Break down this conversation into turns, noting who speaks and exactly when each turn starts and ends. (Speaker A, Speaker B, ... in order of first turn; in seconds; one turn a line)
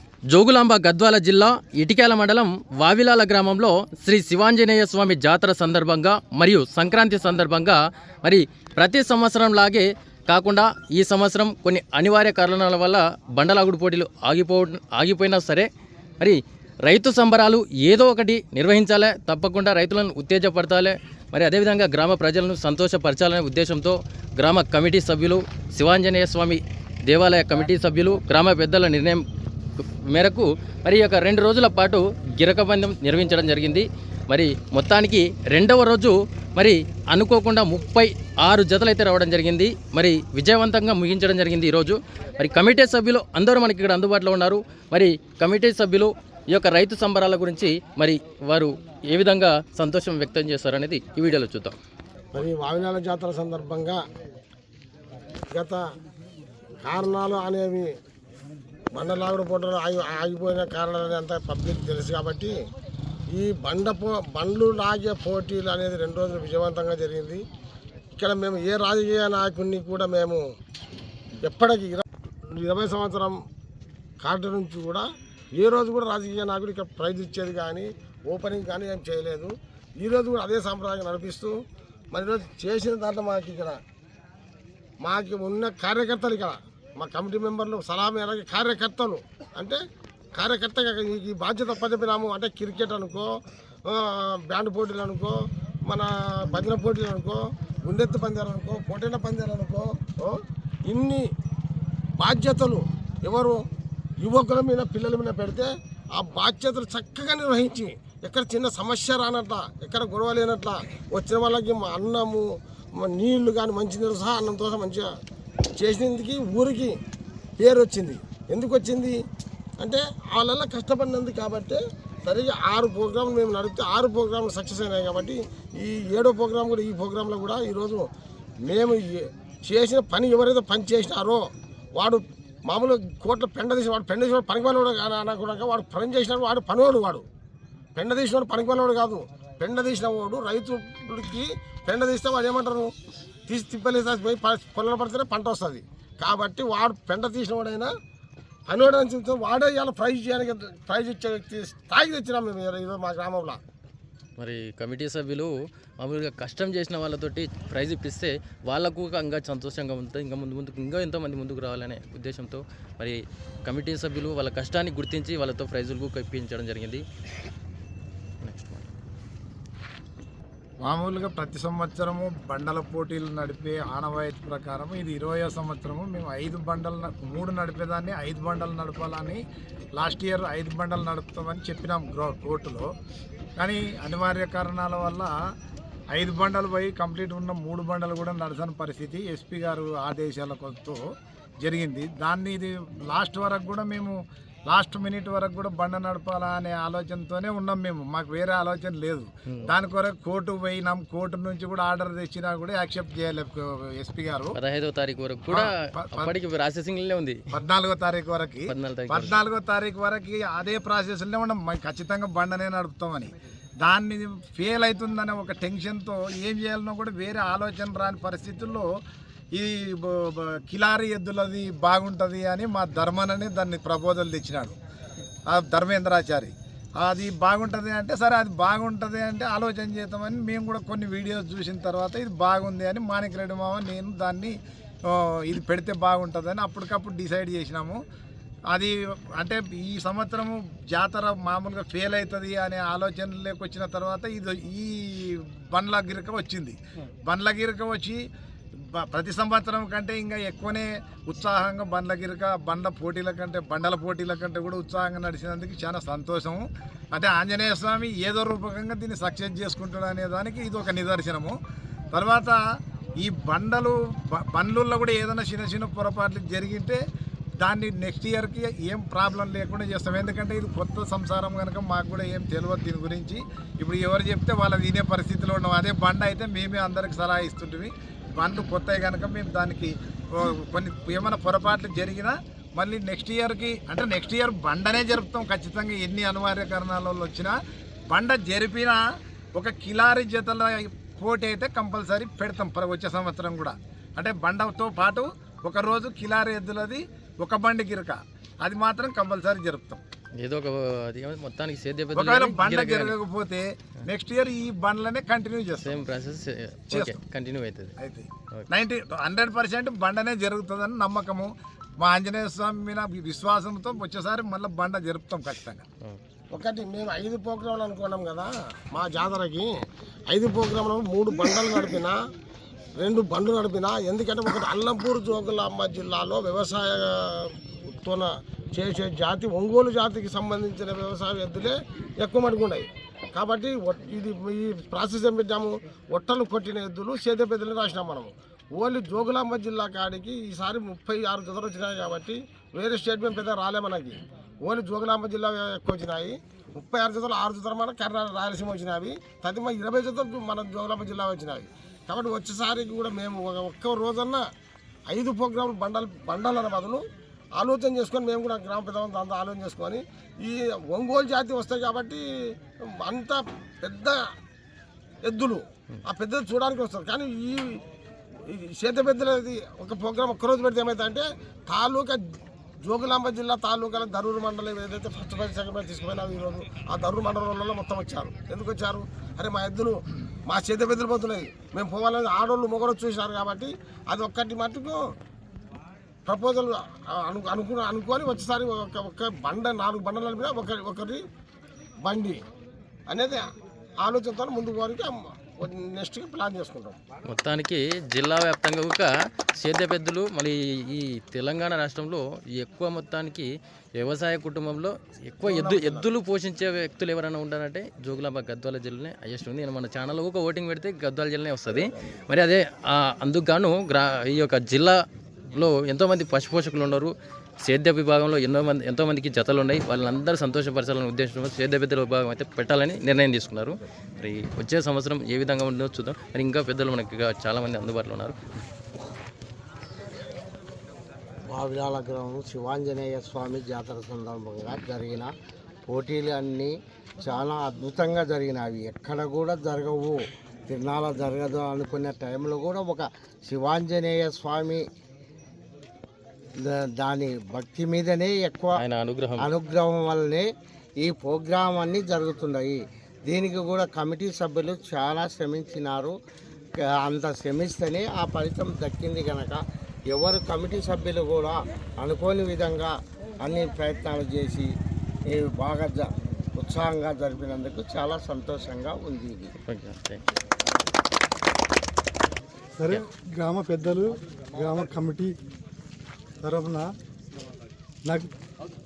Speaker A: 0.3-15.7
Speaker A: 16.2-29.2
Speaker A: 30.1-51.8
Speaker B: 52.3-54.0
Speaker B: 55.5-55.8
Speaker B: 56.8-57.9
Speaker B: 58.9-62.5
Speaker B: 63.3-67.4
Speaker B: 68.2-70.4
Speaker B: 71.4-72.0
Speaker B: 72.6-73.3
Speaker B: 74.2-75.0
Speaker B: 75.6-81.5
Speaker B: 82.1-83.8
Speaker B: 85.0-89.8
Speaker B: 90.3-93.3
Speaker B: 93.9-101.2
Speaker B: 102.2-103.6
Speaker B: 104.2-112.5
Speaker B: 113.0-115.1
Speaker B: 115.8-116.9
Speaker B: 117.6-119.1
Speaker B: 119.8-128.1
Speaker B: 128.6-131.4
Speaker B: 131.9-137.2
Speaker B: 137.9-142.9
Speaker B: 143.5-147.9
Speaker B: 148.7-153.6
Speaker A: 154.4-167.0
Speaker A: 168.4-168.9
Speaker C: 170.8-179.4
Speaker C: 180.0-182.8
Speaker C: 183.6-185.3
Speaker C: 186.1-191.0
Speaker C: 191.6-194.1
Speaker C: 194.7-204.5
Speaker A: 204.5-207.4
Speaker C: 205.5-206.3
Speaker C: 207.5-213.3
Speaker A: 208.7-209.4
Speaker C: 213.8-218.8
Speaker C: 219.5-224.7
Speaker C: 225.5-234.5
Speaker C: 235.1-238.0
Speaker C: 238.7-248.2
Speaker C: 249.0-256.6
Speaker C: 257.1-261.5
Speaker C: 262.1-262.6
Speaker C: 263.2-263.9
Speaker C: 264.5-267.0
Speaker C: 267.6-287.5
Speaker C: 288.1-289.0
Speaker C: 289.5-300.0
Speaker A: 300.4-303.1
Speaker C: 302.1-306.0
Speaker A: 305.8-307.9
Speaker C: 306.9-307.2
Speaker C: 308.0-315.8
Speaker B: 316.5-319.7
Speaker B: 320.3-322.2
Speaker B: 323.0-354.4
Speaker B: 355.1-357.0
Speaker B: 357.6-362.2
Speaker B: 363.0-364.2
Speaker B: 365.2-367.8
Speaker B: 368.5-372.2
Speaker B: 372.8-379.9
Speaker B: 380.5-385.0
Speaker B: 386.3-391.2
Speaker B: 392.0-392.4
Speaker B: 393.1-393.4
Speaker B: 394.0-397.0
Speaker A: 397.3-399.1
Speaker A: 399.6-403.5
Speaker A: 404.0-415.0
Speaker B: 405.4-406.1
Speaker A: 415.5-417.1
Speaker A: 417.6-428.4
Speaker D: 431.5-435.3
Speaker D: 435.9-444.8
Speaker D: 446.6-448.8
Speaker A: 448.8-449.5
Speaker D: 449.4-450.5
Speaker D: 451.0-456.1
Speaker D: 456.8-464.7
Speaker D: 465.3-469.5
Speaker A: 469.6-470.2
Speaker E: 472.8-475.3
Speaker E: 476.4-476.9